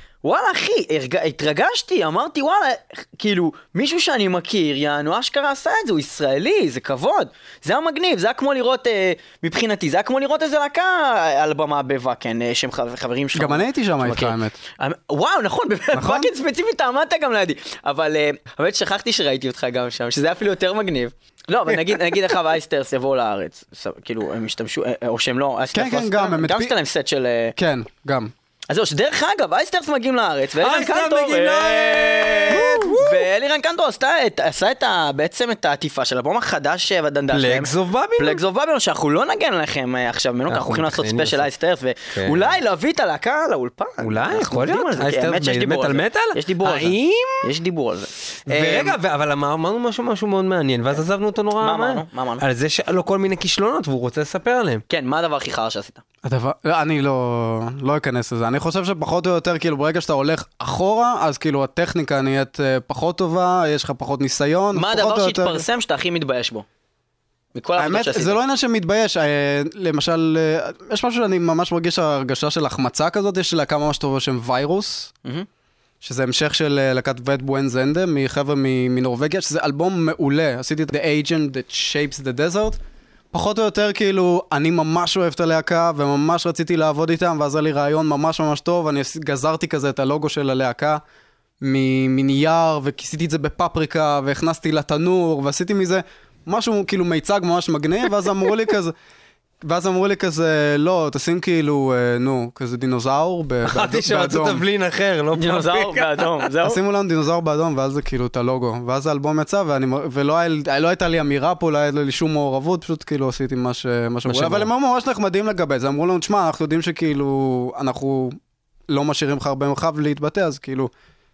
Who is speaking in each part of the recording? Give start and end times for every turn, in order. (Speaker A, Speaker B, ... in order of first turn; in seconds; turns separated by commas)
Speaker A: 0.2-27.5, Speaker B: 13.3-14.6, Speaker B: 15.9-16.3, Speaker B: 25.7-26.7, Speaker B: 27.6-28.3, Speaker A: 28.7-49.0, Speaker C: 30.6-33.2, Speaker C: 37.3-38.4, Speaker C: 40.5-41.5, Speaker C: 42.1-42.5, Speaker C: 44.0-47.5, Speaker C: 48.5-54.8, Speaker A: 51.6-52.4, Speaker A: 54.9-56.0, Speaker B: 56.2-65.6, Speaker A: 64.7-66.7, Speaker A: 67.5-68.4, Speaker B: 67.8-75.1, Speaker B: 76.0-82.8, Speaker B: 83.3-91.0, Speaker B: 91.6-98.9, Speaker B: 99.6-104.6, Speaker C: 103.7-106.5, Speaker A: 105.3-106.8, Speaker B: 106.6-118.4, Speaker C: 114.2-114.7, Speaker B: 118.9-120.9